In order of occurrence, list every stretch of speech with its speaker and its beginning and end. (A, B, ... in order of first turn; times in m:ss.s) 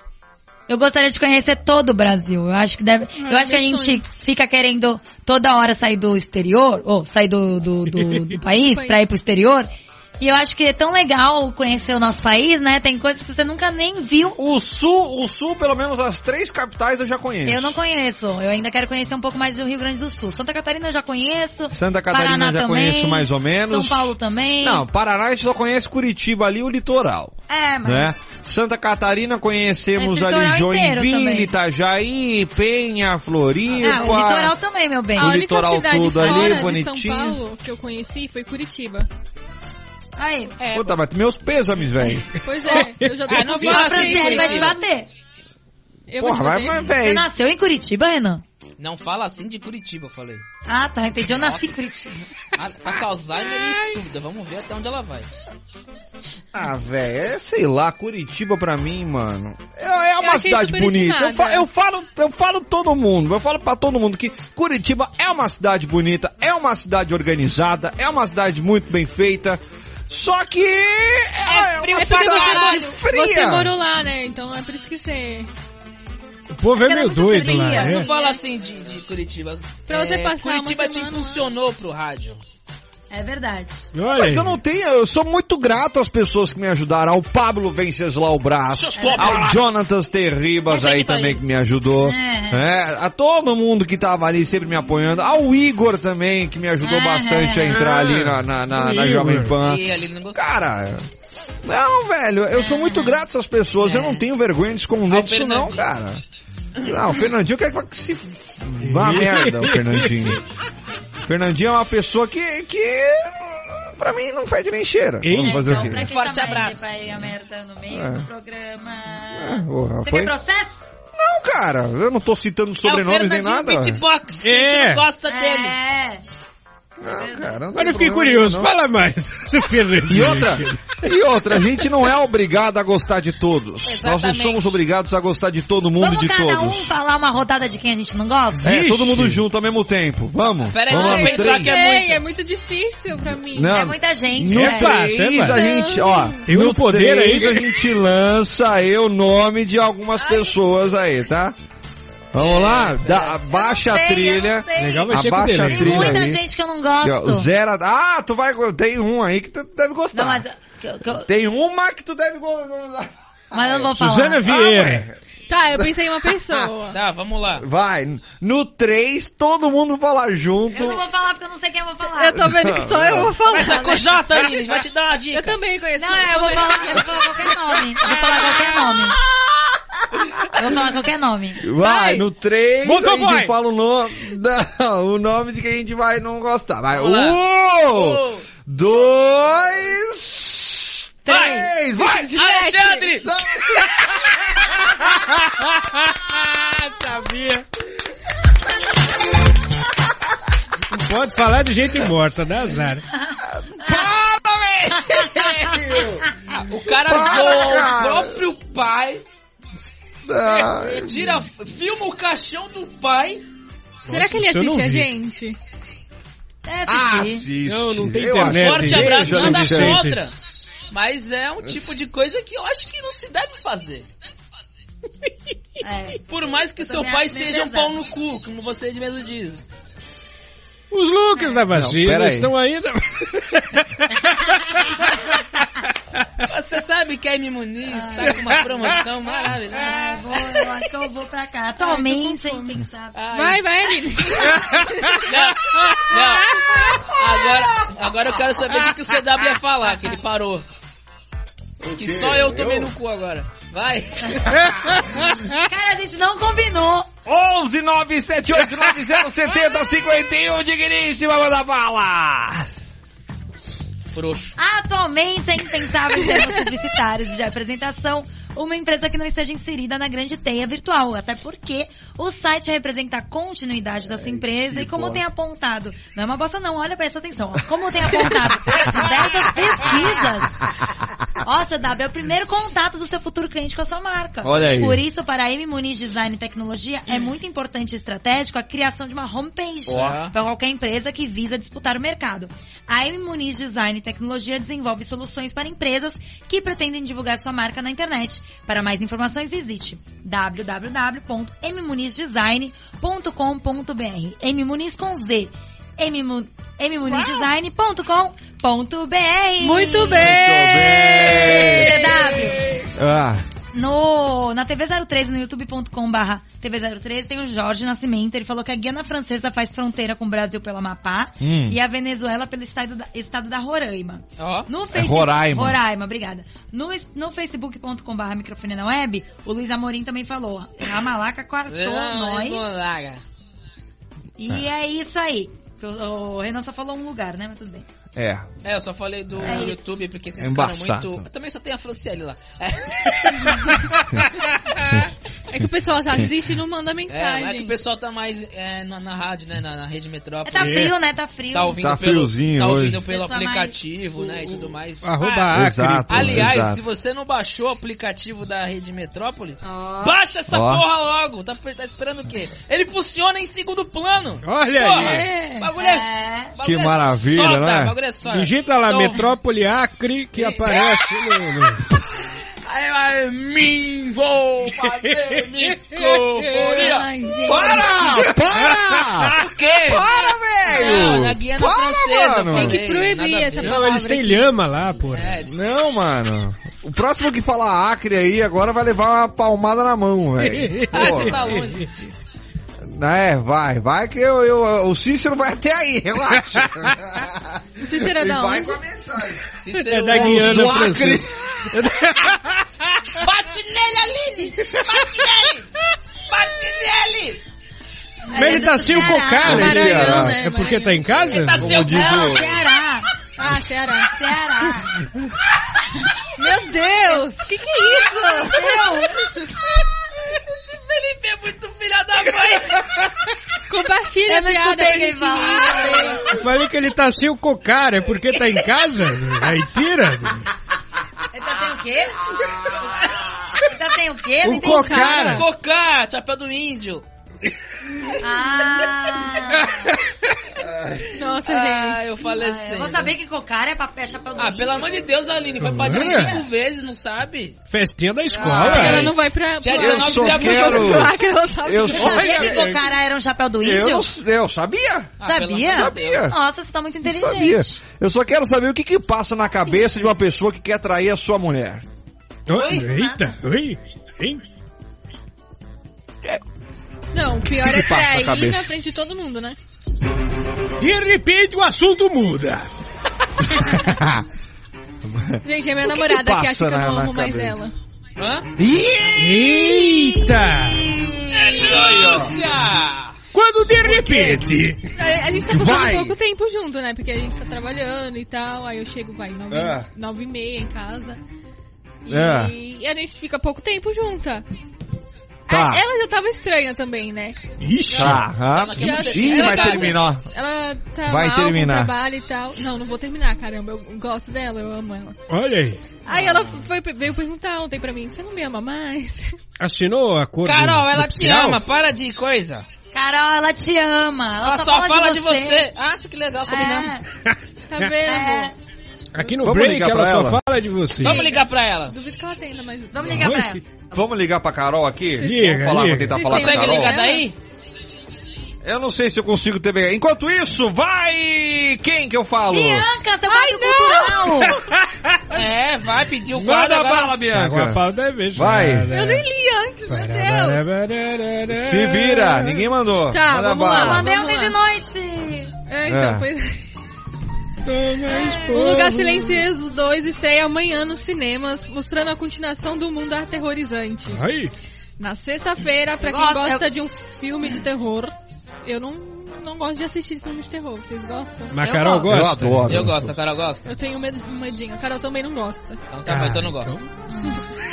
0:00.7-0:09.7 A
0:03.2-0:04.0 B
0:07.9-0:08.3 C
0:08.5-0:09.0 B
0:10.2-0:14.4 A
0:14.4-0:17.7 D
0:17.4-0:24.8 A
0:21.7-0:34.5 D
0:27.5-0:28.2 A
0:30.0-0:31.5 A
0:33.8-0:35.4 A
0:35.2-0:39.1 B
0:35.2-0:37.4 D
0:36.2-0:36.7 A
0:40.2-0:40.5 A
0:40.6-0:41.0 E
0:40.7-0:42.3 D
0:42.4-0:44.8 B
0:42.6-0:43.4 C
0:43.3-0:44.8 E
0:43.5-0:45.1 A
0:46.1-0:46.8 B
0:46.2-0:47.3 D
0:47.0-0:48.4 A
0:48.8-0:50.4 E
0:50.6-0:52.2 A
0:51.3-0:51.7 E
0:52.6-0:55.3 E
0:56.5-1:13.7 D
1:00.2-1:01.6 B
1:11.4-1:12.9 E
1:11.9-1:15.5 B
1:16.5-1:18.0 C
1:16.8-1:18.3 B
1:16.8-1:17.9 A
1:17.6-1:22.4 E
1:19.9-1:21.4 B
1:23.1-1:23.9 A
1:23.9-1:24.6 C
1:24.1-1:41.0 D
1:28.7-1:29.6 E
1:29.0-1:29.4 A
1:30.7-1:31.4 E
1:32.0-1:32.6 A
1:36.8-1:37.8 A
1:37.7-1:39.6 C
1:39.6-1:40.5 E
1:41.6-1:46.2 D
1:42.5-1:43.2 A
1:43.8-1:44.2 E
1:45.1-1:45.9 E
1:46.8-1:50.4 D
1:48.8-1:50.4 C
1:51.2-1:56.0 D
1:55.2-1:56.0 C
1:55.4-2:00.9 A
1:56.0-1:56.8 E
1:57.9-1:58.3 D
1:59.3-2:00.3 D
2:01.1-2:04.0 D
2:02.8-2:05.8 E
2:04.4-2:05.0 C
2:05.3-2:06.2 A
2:07.0-2:08.7 D
2:07.0-2:07.7 A
2:07.7-2:10.9 C
2:10.0-2:16.9 D
2:13.8-2:14.6 E
2:16.0-2:18.8 A
2:18.6-2:19.4 C
2:18.6-2:21.8 D
2:20.7-2:22.2 E
2:20.9-2:23.8 B
2:23.5-2:31.6 D
2:23.6-2:25.0 A
2:24.5-2:25.6 C
2:25.4-2:26.5 B
2:26.5-2:27.8 C
2:32.3-2:36.4 D
2:32.3-2:33.4 E
2:33.4-2:37.5 A
2:34.8-2:36.2 C
2:37.0-2:40.4 D
2:40.1-2:41.3 A
2:41.1-2:45.2 D
2:43.5-2:44.6 A
2:43.9-2:45.1 C
2:45.5-2:47.0 B
2:45.8-2:46.7 D
2:46.9-2:47.6 E
2:47.5-2:51.0 D
2:50.7-2:52.4 A
2:52.1-2:54.2 B
2:52.4-2:53.4 D
2:53.5-2:55.6 E
2:55.3-2:57.1 B
2:56.0-2:59.2 A
3:00.1-3:00.6 D
3:00.5-3:02.2 A
3:01.6-3:12.4 D
3:02.8-3:03.5 C
3:06.9-3:08.4 E
3:11.2-3:11.7 A
3:11.3-3:13.9 E
3:12.0-3:13.0 B
3:13.2-3:14.2 D
3:14.9-3:17.6 C
3:20.9-3:23.0 C
3:23.4-3:26.3 D
3:25.0-3:25.9 A
3:26.5-3:29.2 E
3:27.0-3:28.4 D
3:30.2-3:31.3 D
3:30.6-3:33.4 E
3:34.1-3:35.1 C
3:34.1-3:35.6 B
3:36.6-3:37.5 A
3:36.9-3:40.0 D
3:37.6-3:40.2 C
3:38.4-3:40.3 E
3:40.9-3:44.1 E
3:45.8-3:46.2 A
3:46.3-3:49.6 E
3:46.8-3:47.9 A
3:50.9-3:55.6 C
3:51.3-3:51.6 A
3:51.7-3:52.5 D
3:56.4-4:00.0 E
3:57.9-3:58.4 A
3:58.2-3:59.0 C
3:59.8-4:03.2 A
4:01.8-4:02.8 B
4:03.1-4:03.6 E
4:03.3-4:04.8 B
4:05.1-4:10.6 E
4:11.8-4:12.9 D
4:11.8-4:14.5 E
4:15.0-4:15.3 C
4:15.6-4:17.1 A
4:17.2-4:22.7 D
4:24.1-4:24.6 E
4:24.6-4:40.5 A
4:26.2-4:26.6 B
4:34.2-4:35.2 D
4:38.2-4:38.9 D
4:41.4-5:10.4 A
4:44.4-4:45.0 D
4:49.9-4:50.2 D
4:49.9-4:50.3 E
5:09.6-5:12.5 B
5:10.2-5:11.9 D
5:11.1-5:12.6 A
5:12.9-5:13.4 D
5:13.7-5:32.7 A
5:21.4-5:21.8 D
5:24.4-5:24.7 E
5:24.9-5:25.8 D
5:31.7-5:33.2 E
5:34.4-5:37.8 A
5:38.2-5:38.5 D
5:38.6-5:43.7 E
5:39.4-5:39.8 A
5:40.4-5:41.2 D
5:45.5-5:47.7 B
5:47.1-5:50.9 E
5:50.4-5:51.8 A
5:50.6-5:50.9 C
5:51.5-5:55.6 E
5:51.8-5:53.0 D
5:53.1-5:53.8 A
5:55.0-5:56.5 C
5:55.5-5:56.8 D
5:56.1-6:09.3 E
5:59.6-6:00.2 A
6:00.5-6:00.8 D
6:04.4-6:05.3 C
6:05.0-6:06.5 A
6:06.6-6:07.9 D
6:08.3-6:11.8 C
6:10.3-6:11.0 E
6:12.6-6:17.1 E
6:14.7-6:16.9 C
6:16.8-6:18.2 B
6:16.9-6:17.8 A
6:17.4-6:22.8 D
6:18.0-6:19.0 C
6:19.3-6:20.1 E
6:20.7-6:23.8 E
6:20.8-6:21.1 B
6:22.5-6:24.5 B
6:23.6-6:25.4 C
6:25.1-6:25.5 E
6:25.4-6:31.6 D
6:30.4-6:31.9 C
6:30.9-6:31.9 E
6:32.8-6:39.5 D
6:37.8-6:38.8 B
6:39.6-6:40.9 E
6:39.7-6:42.7 C
6:40.1-6:41.8 D
6:43.2-6:45.7 E
6:46.3-6:47.4 E
6:48.3-6:49.8 A
6:48.3-6:51.8 C
6:49.4-6:50.4 D
6:49.4-6:51.2 B
6:51.1-6:52.5 E
6:51.5-6:52.6 D
6:51.8-6:53.1 A
6:53.4-6:54.1 B
6:54.1-6:55.0 A
6:56.4-6:58.7 B
6:57.8-6:59.2 A
7:00.2-7:03.0 E
7:03.7-7:06.3 B
7:04.3-7:06.2 A
7:06.2-7:10.5 C
7:11.3-7:12.2 A
7:13.6-7:15.4 A
7:14.4-7:15.4 C
7:14.6-7:15.4 B
7:15.1-7:17.0 E
7:18.2-7:19.9 A
7:19.5-7:19.9 C
7:20.6-7:21.0 D
7:21.1-7:22.2 B
7:21.4-7:23.1 E
7:22.3-7:24.9 A
7:24.4-7:27.6 E
7:25.6-7:26.4 C
7:25.9-7:26.4 A
7:27.7-7:29.1 C
7:28.3-7:29.1 D
7:28.5-7:32.3 B
7:29.6-7:31.1 E
7:29.8-7:32.6 D
7:31.9-7:34.1 A
7:31.9-7:32.9 C
7:33.6-7:35.1 D
7:35.2-7:36.3 E
7:35.2-7:37.8 A
7:35.7-7:36.3 D
7:37.0-7:41.8 D
7:42.5-7:44.4 C
7:42.5-7:42.8 E
7:42.6-7:43.3 A
7:47.1-7:49.6 B
7:47.6-7:48.7 D
7:50.8-7:52.7 C
7:53.5-7:54.2 D
7:55.0-7:57.6 D
7:55.4-7:57.7 B
7:58.2-7:58.5 E
7:58.6-8:02.4 D
7:59.1-8:00.9 C
8:01.3-8:03.2 E
8:03.3-8:04.9 C
8:03.9-8:04.3 D
8:05.0-8:11.2 B
8:05.4-8:06.2 D
8:09.5-8:09.9 D
8:12.0-8:14.4 B
8:12.1-8:12.5 D
8:15.5-8:15.8 D
8:15.5-8:17.4 B
8:17.6-8:18.2 C
8:17.9-8:20.2 D
8:17.9-8:20.1 E
8:18.8-8:25.2 B
8:21.0-8:21.9 D
8:25.3-8:25.8 C
8:26.0-8:29.4 B
8:26.1-8:26.6 E
8:29.6-8:31.6 C
8:30.4-8:32.6 E
8:32.9-8:35.7 A
8:34.4-8:36.9 E
8:36.4-8:37.0 A
8:37.2-8:37.9 C
8:37.7-8:38.5 B
8:38.0-8:38.5 A
8:39.1-8:41.2 C
8:39.4-8:40.4 D
8:41.0-8:41.9 E
8:41.0-8:43.2 B
8:42.9-8:43.6 A
8:43.0-8:43.6 C
8:43.9-8:47.0 D
8:45.2-8:47.3 B
8:45.2-8:46.2 C
8:46.3-8:47.4 E
8:48.6-8:52.9 D
8:52.5-8:54.6 A
8:53.4-8:53.7 B
8:54.2-8:55.4 C
8:55.3-8:57.2 E
8:56.3-8:58.9 D
8:57.2-8:59.3 C
8:58.9-9:00.6 B
8:59.9-9:02.6 C
9:01.5-9:04.1 D
9:03.1-9:04.6 B
9:03.7-9:05.5 A
9:05.7-9:06.7 B
9:05.8-9:06.3 D
9:07.6-9:09.4 C
9:08.3-9:14.2 B
9:14.1-9:14.5 C
9:15.0-9:18.1 B
9:16.0-9:16.7 A
9:18.6-9:21.6 B
9:21.5-9:22.9 C
9:21.6-9:22.3 A
9:22.1-9:23.1 D
9:22.7-9:23.7 E
9:23.6-9:25.8 B
9:25.9-9:26.8 E
9:26.0-9:26.9 C
9:27.1-9:27.4 A